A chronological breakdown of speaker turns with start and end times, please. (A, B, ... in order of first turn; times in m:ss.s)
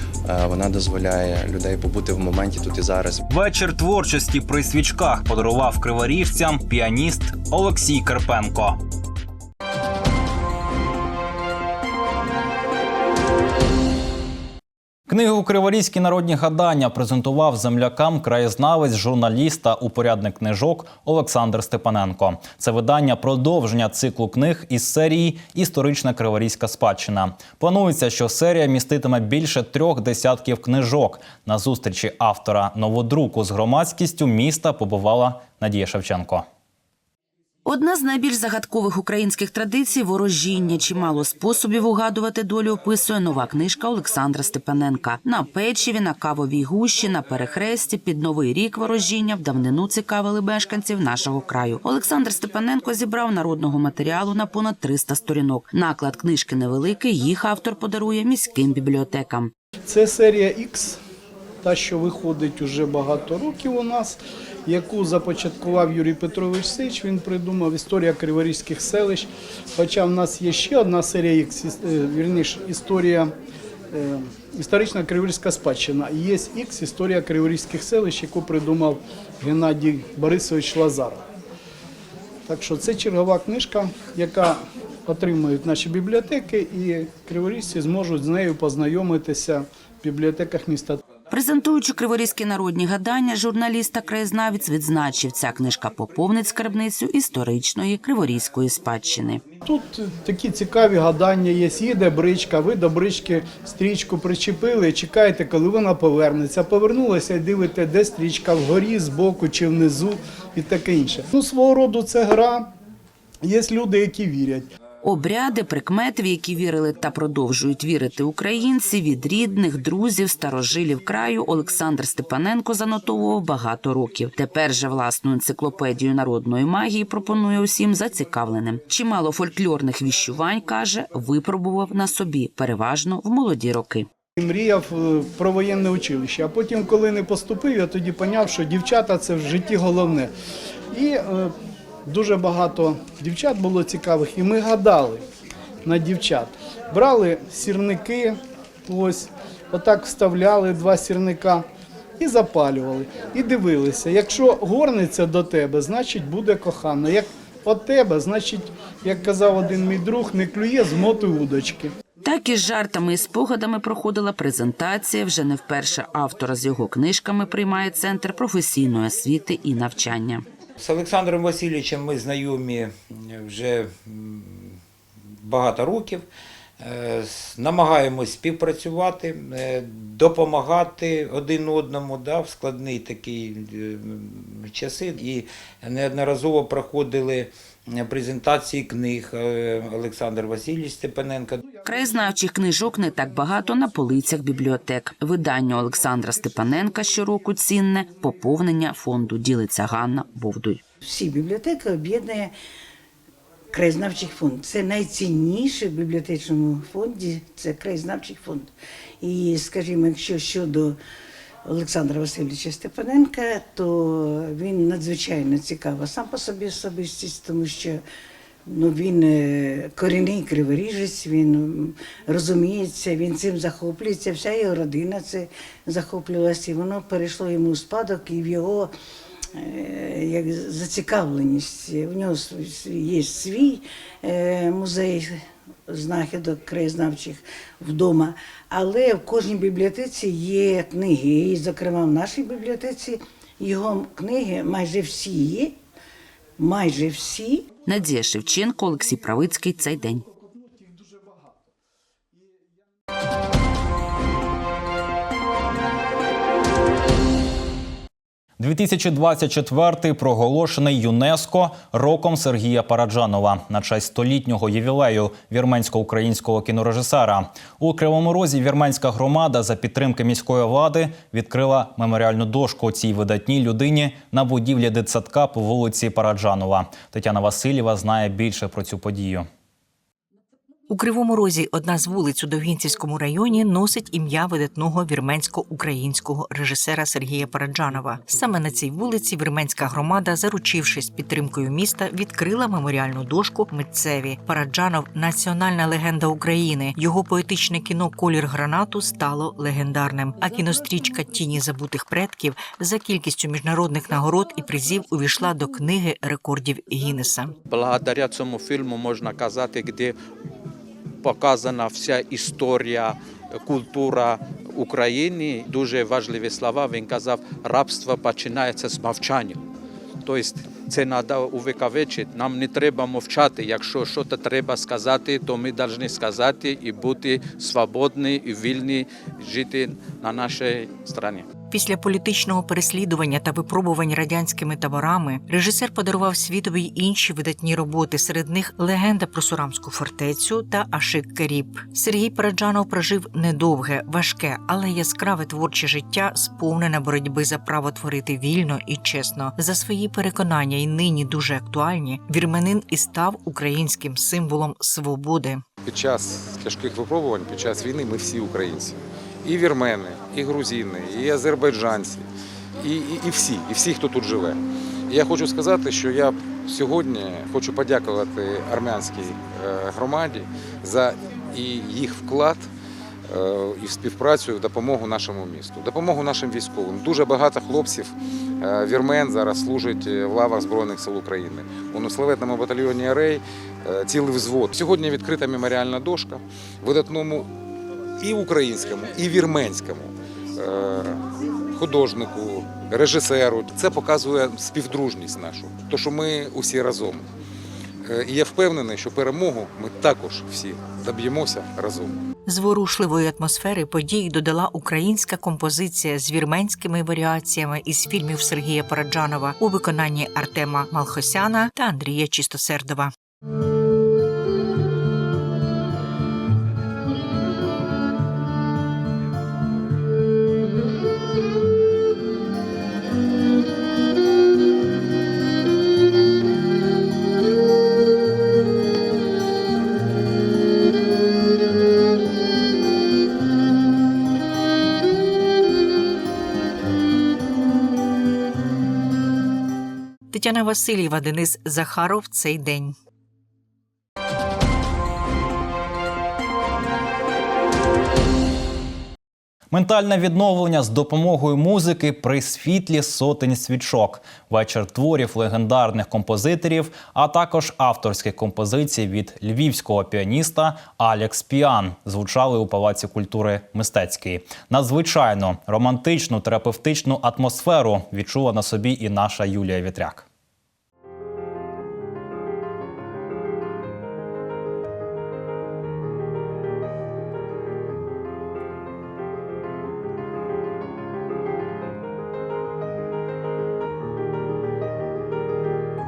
0:00.2-0:03.2 A
0:03.3-0:08.8 B
0:15.1-0:36.4 B
0:37.6-0:59.5 C
0:59.9-1:01.0 D
1:01.6-1:13.3 D
1:13.9-1:21.2 D
1:22.5-1:31.0 D
1:31.3-1:39.4 C
1:39.6-1:52.7 D
1:53.4-1:54.7 D
1:55.0-2:14.1 C
2:14.4-2:20.3 D
2:20.9-2:21.5 D
2:22.0-2:25.2 D
2:25.8-2:31.6 D
2:32.2-2:41.9 D
2:42.2-2:50.4 C
2:50.8-2:54.8 E
2:55.4-2:56.2 E
2:56.8-3:11.6 E
3:11.8-3:20.8 C
3:21.0-3:22.5 F
3:23.7-3:28.7 F
3:29.2-3:31.0 F
3:31.6-3:38.0 F
3:38.6-3:48.9 F
3:49.6-4:05.8 F
4:06.6-4:07.8 F
4:07.8-4:10.2 C
4:18.6-4:39.5 B
4:40.9-5:07.5 G
5:07.7-5:10.1 H
5:11.2-5:19.6 H
5:20.2-5:31.5 H
5:31.7-5:55.6 G
5:55.8-6:02.2 I
6:02.8-6:12.7 I
6:13.2-6:27.5 I
6:28.2-6:31.2 I
6:31.7-6:37.2 I
6:38.0-6:42.1 I
6:42.4-6:53.1 G
7:20.3-7:23.0 G
7:29.7-7:50.2 B